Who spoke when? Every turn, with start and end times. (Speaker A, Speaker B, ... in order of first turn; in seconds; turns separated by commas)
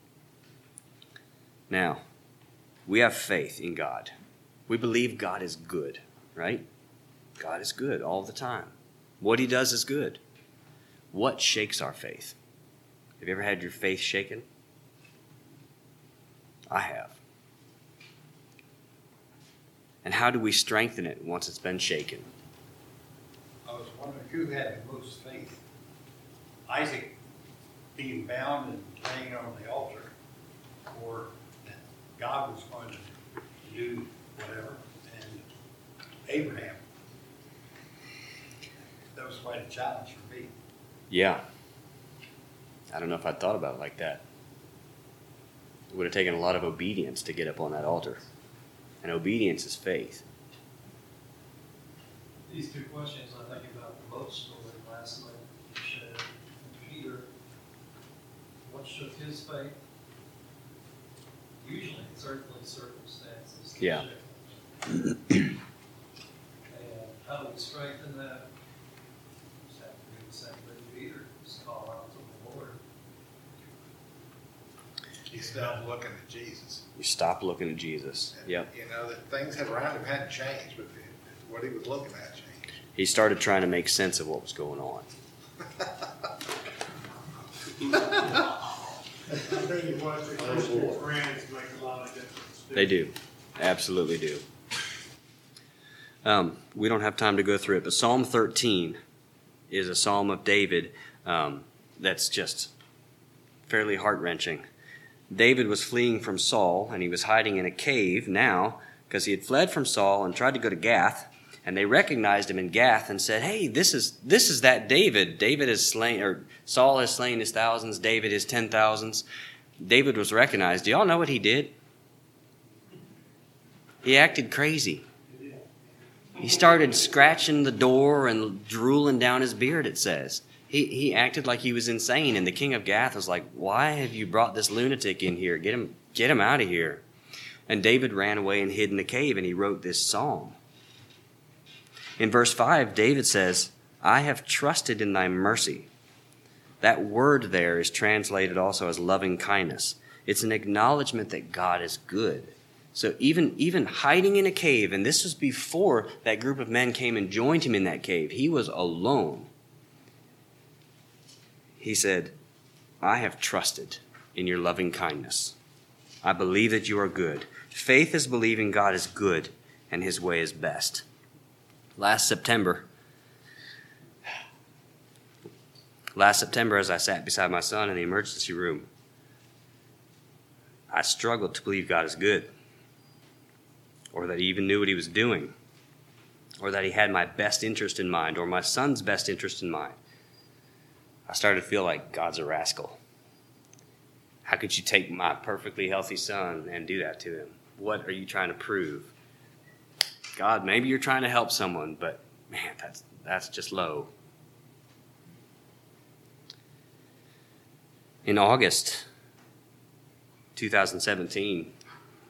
Speaker A: 1.7-2.0, Speaker A: 2.9-4.1, Speaker A: 4.7-6.7, Speaker A: 7.4-10.2, Speaker A: 11.1-12.4, Speaker A: 13.2-14.4, Speaker A: 16.7-17.2, Speaker A: 20.0-22.3, Speaker B: 23.6-25.6, Speaker B: 26.7-27.1, Speaker B: 27.9-30.1, Speaker B: 30.9-33.1, Speaker B: 33.6-35.4, Speaker B: 36.2-36.8, Speaker B: 39.1-40.5, Speaker A: 41.1-41.4, Speaker A: 42.9-44.2, Speaker A: 45.9-48.2, Speaker A: 49.0-50.2, Speaker C: 52.5-57.3, Speaker C: 58.6-59.8, Speaker C: 61.6-65.4, Speaker A: 63.8-64.0, Speaker C: 66.7-68.5, Speaker C: 69.7-72.8, Speaker D: 75.3-76.8, Speaker A: 77.0-78.7, Speaker D: 78.4-82.6, Speaker A: 83.0-85.1, Speaker D: 87.9-88.3, Speaker E: 89.4-93.0, Speaker A: 92.7-94.4, Speaker A: 96.2-99.0, Speaker A: 99.7-102.7, Speaker A: 103.7-104.6, Speaker A: 105.3-119.2, Speaker A: 119.8-121.7, Speaker A: 124.0-125.0, Speaker A: 126.4-137.0, Speaker A: 137.7-140.6, Speaker A: 142.2-145.9, Speaker A: 146.8-159.5, Speaker A: 161.8-162.3, Speaker A: 163.0-165.6, Speaker A: 166.2-171.0, Speaker A: 172.0-172.9, Speaker A: 176.1-178.9, Speaker A: 180.9-182.5, Speaker A: 184.1-185.5, Speaker A: 186.6-190.0, Speaker A: 191.3-193.0, Speaker A: 194.4-199.1, Speaker A: 200.3-204.1, Speaker A: 208.2-209.1, Speaker A: 210.6-211.7